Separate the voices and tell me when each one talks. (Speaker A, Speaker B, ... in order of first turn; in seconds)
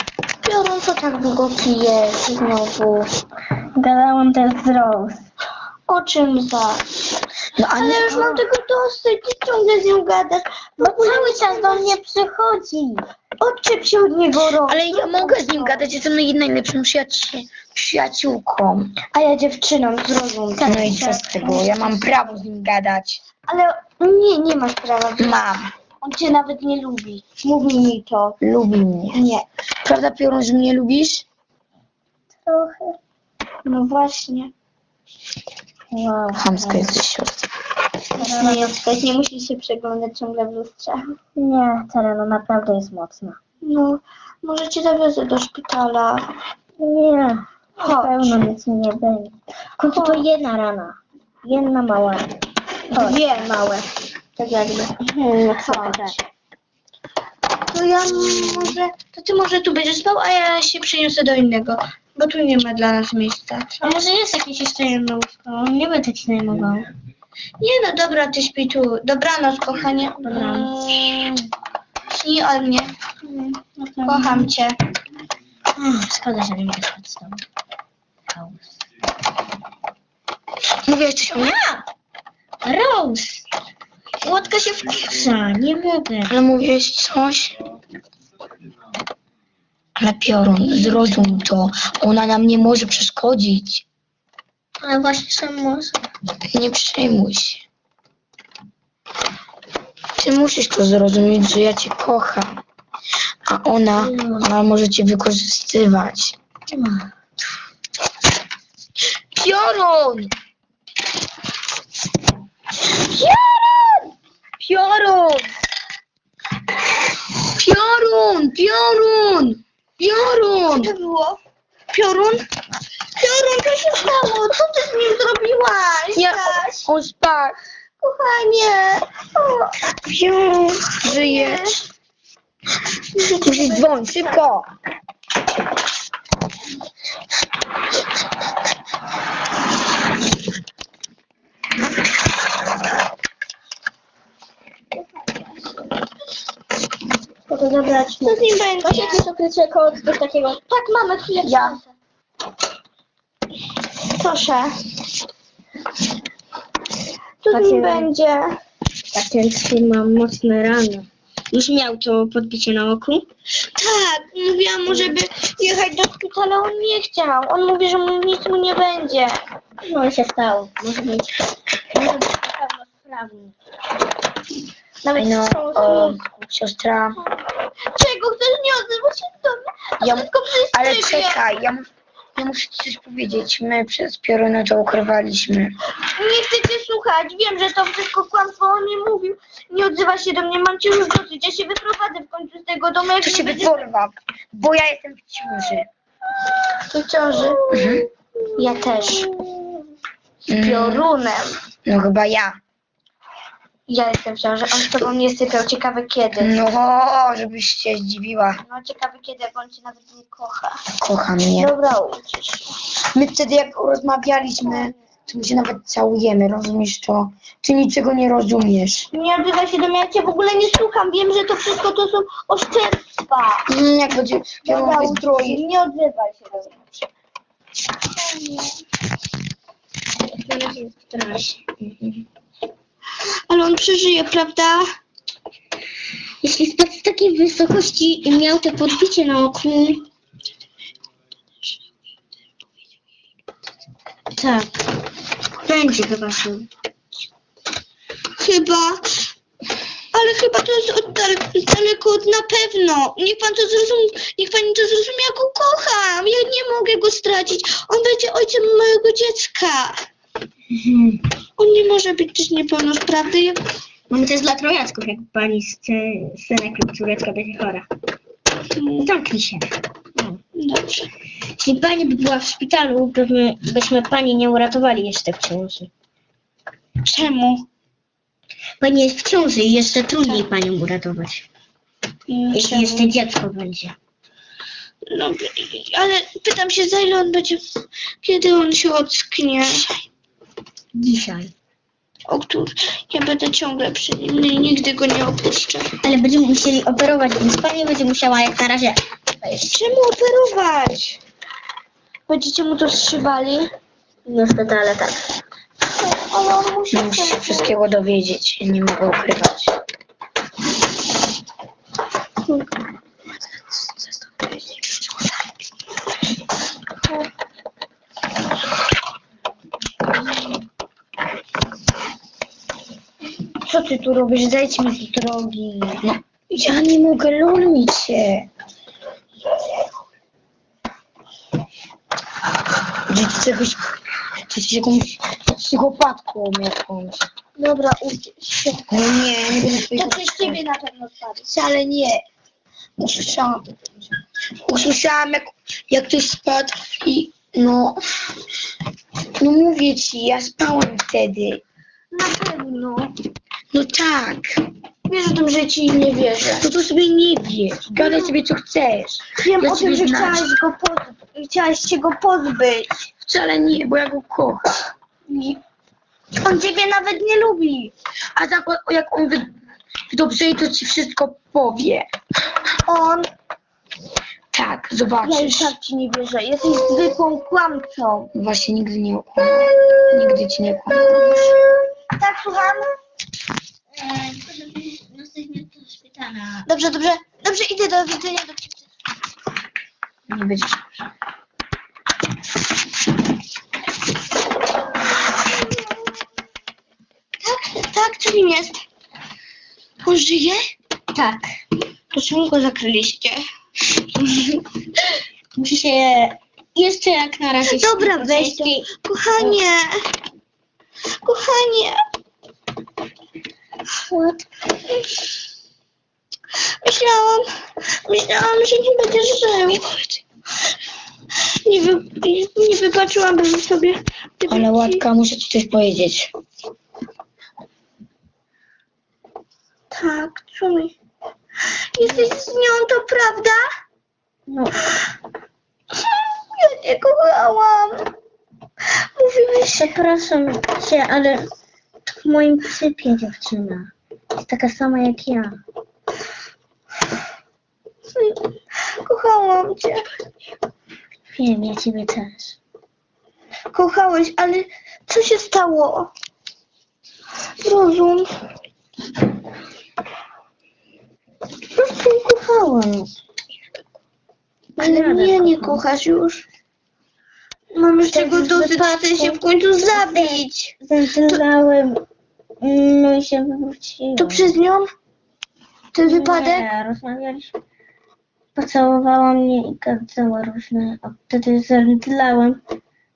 Speaker A: 0.4-3.1, 5.9-6.8, 7.8-12.0, 13.4-15.9, 19.1-21.7, 23.5-25.4, 26.0-28.4, 29.1-29.5, 33.7-34.5, 38.1-41.0, 43.6-46.3, 47.8-48.4, 49.9-50.3, 52.9-53.6, 55.6-56.2, 57.7-63.9, 67.6-71.3, 72.1-72.9, 74.0-74.8, 120.6-121.4, 121.9-122.4, 123.2-126.9, 128.0-131.8, 133.1-134.4, 148.2-149.2, 150.6-151.8, 154.1-154.7, 157.4-158.6, 163.8-169.4, 175.0-176.2, 177.9-181.4, 186.1-193.8, 196.8-198.0, 198.6-199.3, 200.5-201.6, 203.9-206.6, 208.6-210.8, 211.6-212.7, 214.7-214.9, 219.1-223.7, 224.7-226.8, 233.5-234.8, 248.4-249.2, 250.1-260.0, 261.6-263.6, 268.7-269.1, 270.6-271.1, 277.0-277.7, 282.3-283.1, 285.1-287.6, 288.2-290.1, 292.3-296.0, 299.6-301.2, 302.3-303.7, 305.9-307.8, 323.6-326.0, 337.6-338.9, 339.9-341.5, 352.1-353.1, 355.1-356.7, 357.9-358.3, 359.4-363.0, 365.3-365.6, 366.4-367.9, 372.9-373.3, 375.2-378.3, 381.1-383.0, 386.6-388.8, 395.3-396.1, 397.4-398.8, 400.0-400.6, 402.1-403.4, 404.2-404.5, 407.6-410.1, 411.2-412.0, 416.8-417.5, 418.1-420.2, 421.6-425.0, 429.9-430.9, 432.0-433.6, 435.9-438.1, 439.0-439.9, 449.0-450.1, 453.7-456.1, 457.6-458.3, 464.8-466.5, 467.7-470.5, 474.2-474.9, 475.9-476.7
Speaker B: 3.8-5.2, 10.8-13.1, 32.5-33.0, 35.9-37.0, 38.2-38.8, 41.4-43.4, 46.8-52.4, 52.9-56.2, 58.1-58.8, 63.8-66.9, 70.2-71.3, 73.2-74.5, 75.8-77.4, 78.3-78.6, 81.3-81.8, 82.6-83.4, 84.2-86.4, 90.8-91.1, 94.8-96.0, 104.0-104.5, 106.7-107.1, 147.5-150.6, 157.5-158.1, 159.1-163.3, 164.9-165.2, 169.8-171.4, 171.9-173.6, 198.6-199.3, 228.3-228.7, 230.4-232.2, 236.4-240.1, 244.3-244.7, 245.6-246.7, 264.1-267.9, 269.0-270.4, 271.6-275.9, 278.8-281.4, 282.5-284.0, 290.9-291.5, 296.0-299.6, 304.3-305.2, 383.9-386.7, 401.1-401.5, 405.6-409.6, 414.1-414.4, 434.5-434.8, 439.7-441.5, 442.1-445.6, 451.3-452.5, 461.8-463.1, 464.8-465.8, 468.1-472.0, 472.6-474.6, 476.1-477.5, 478.6-482.6
Speaker C: 7.6-8.3, 14.7-19.0, 20.6-23.2, 25.2-25.7, 28.4-29.2, 29.8-31.3, 36.4-37.4, 80.9-81.6, 86.3-87.5, 90.0-93.8, 96.5-97.6, 100.2-102.6, 103.5-106.4, 109.3-110.3, 113.2-113.6, 114.6-115.5, 117.5-120.9, 126.2-127.6, 131.0-131.7, 133.4-134.7, 151.4-151.8, 175.2-177.2, 180.0-185.8, 193.2-195.9, 197.7-198.1, 200.5-201.1, 201.9-202.6, 206.4-208.6, 211.0-211.7, 213.1-219.1, 223.7-225.6, 306.9-309.7, 326.0-328.5, 333.0-333.9, 334.5-337.2, 338.9-340.6, 341.5-342.2, 343.0-343.7, 344.6-348.0, 349.4-351.6, 353.7-354.6, 356.6-360.5, 363.3-364.8, 368.4-369.5, 370.1-372.1, 374.5-375.7, 378.4-381.4, 390.3-390.8, 424.5-426.3